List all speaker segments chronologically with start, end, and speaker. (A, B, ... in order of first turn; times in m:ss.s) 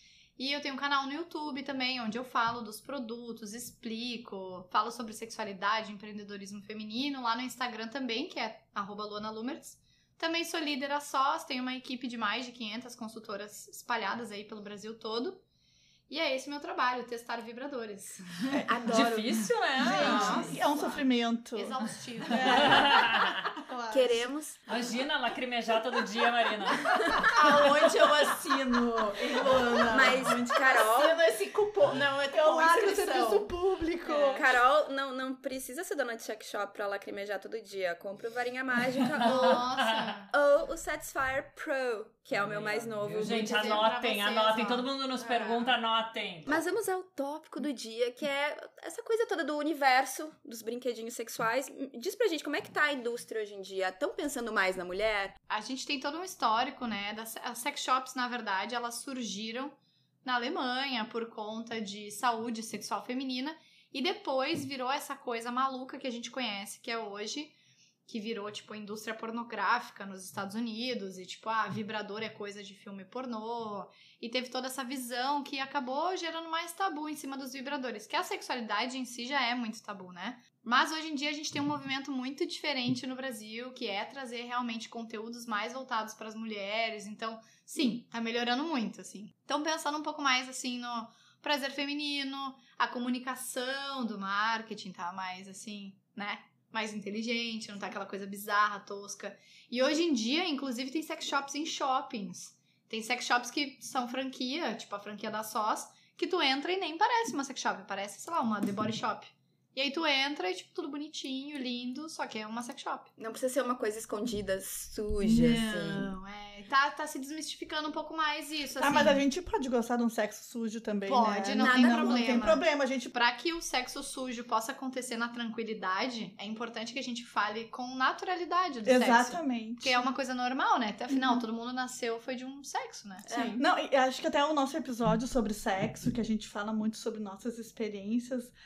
0:00.4-0:15.4 A
0:16.1-0:18.6 A
0:18.5-0:20.6 B
0:18.9-0:20.5 C
0:19.8-0:24.3 D
0:19.9-0:20.5 E
0:21.5-0:23.0 A
0:22.4-0:23.4 C
0:23.9-0:24.6 B
0:24.7-0:27.2 C
0:27.2-0:33.5 E
0:29.4-0:30.5 D
0:29.9-0:31.2 B
0:32.3-0:34.5 D
0:34.1-0:34.4 C
0:34.3-0:39.6 B
0:39.2-0:40.3 A
0:39.3-0:39.8 C
0:40.3-0:43.9 B
0:42.3-0:46.6 C
0:43.3-0:45.7 A
0:46.4-0:55.4 B
0:55.5-1:07.5 A
1:08.1-1:53.1 A
1:53.2-1:56.1 B
1:55.2-1:59.2 A
1:58.8-2:03.1 D
2:01.0-2:13.6 A
2:01.6-2:02.2 B
2:08.8-2:10.0 D
2:13.2-2:13.6 B
2:13.6-2:18.5 D